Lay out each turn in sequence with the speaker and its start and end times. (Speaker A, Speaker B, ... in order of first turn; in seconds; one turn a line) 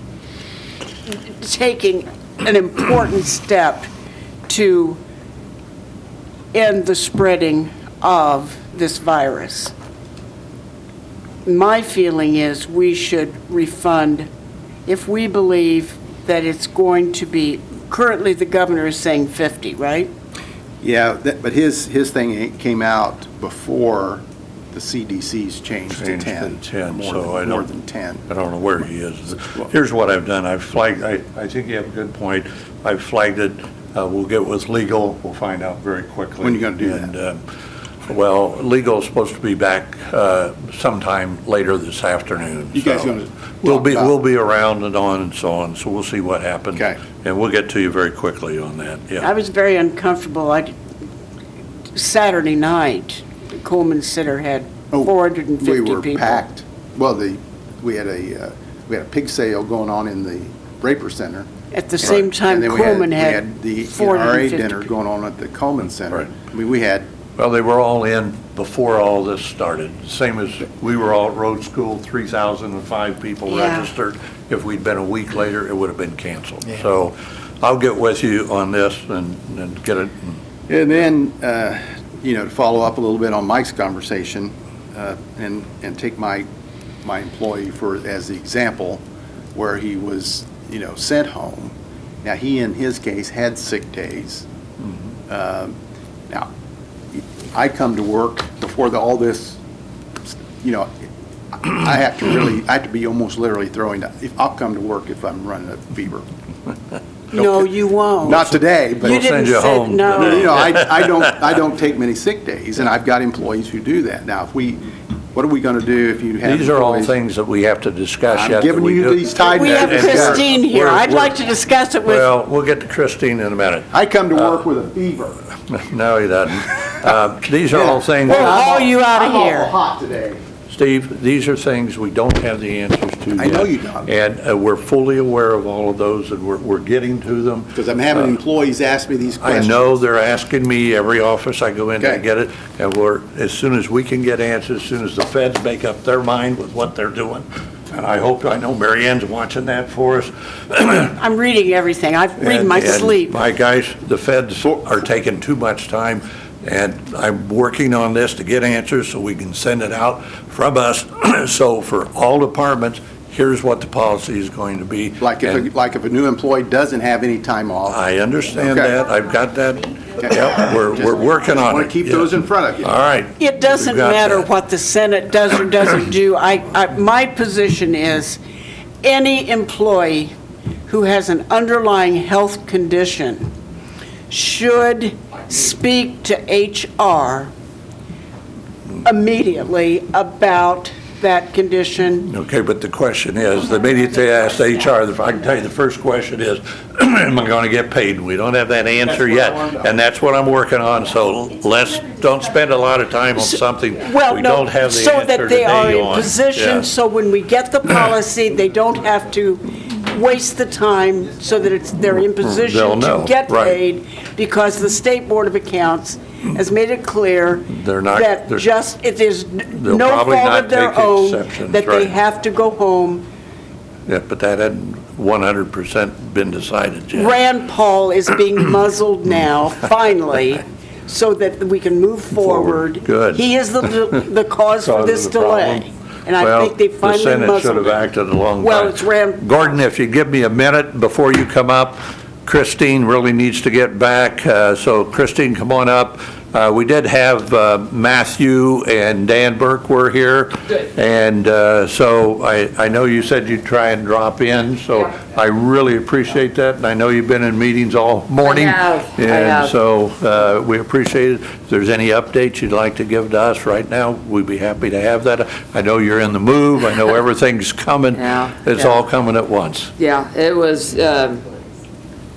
Speaker A: 1.1-3.9
Speaker A: 4.5-5.0
Speaker A: 6.5-9.7
Speaker A: 11.4-14.3
Speaker A: 14.9-20.1
Speaker B: 20.8-28.2
Speaker C: 25.9-27.6
Speaker C: 28.3-37.4
Speaker B: 36.4-37.1
Speaker C: 38.1-49.3
Speaker B: 42.7-44.1
Speaker A: 49.2-50.8
Speaker A: 52.0-56.4
Speaker B: 54.9-61.5
Speaker A: 61.7-64.9
Speaker B: 62.0-67.1
Speaker C: 67.4-80.4
Speaker A: 73.5-73.9
Speaker B: 80.7-86.5
Speaker B: 87.0-89.0
Speaker B: 89.5-94.5
Speaker B: 95.3-95.8
Speaker B: 97.1-99.6
Speaker B: 100.6-100.9
Speaker B: 101.5-106.3
Speaker A: 107.3-110.7
Speaker B: 107.3-107.7
Speaker B: 108.2-109.3
Speaker C: 109.0-111.2
Speaker B: 110.1-117.1
Speaker C: 116.4-121.4
Speaker B: 118.3-120.5
Speaker A: 119.4-122.3
Speaker C: 122.0-123.9
Speaker B: 123.9-125.4
Speaker C: 125.7-128.7
Speaker B: 127.7-130.4
Speaker A: 128.2-129.7
Speaker C: 130.7-138.3
Speaker B: 133.4-134.1
Speaker B: 137.8-139.9
Speaker C: 139.4-151.1
Speaker A: 151.1-153.4
Speaker C: 152.4-165.7
Speaker B: 165.2-168.0
Speaker C: 167.9-174.5
Speaker B: 168.6-169.1
Speaker B: 170.2-172.9
Speaker A: 173.4-178.4
Speaker A: 179.0-180.3
Speaker A: 180.9-183.5
Speaker A: 184.3-187.5
Speaker A: 189.0-192.3
Speaker C: 192.3-206.9
Speaker B: 199.1-199.9
Speaker A: 204.0-223.2
Speaker C: 212.4-213.8
Speaker C: 217.7-218.7
Speaker C: 219.7-222.2
Speaker C: 224.1-227.4
Speaker A: 227.1-238.1
Speaker C: 232.3-234.2
Speaker C: 234.8-235.9
Speaker C: 236.4-269.9
Speaker A: 238.6-239.8
Speaker D: 258.4-259.8
Speaker D: 268.1-269.1
Speaker D: 270.0-271.5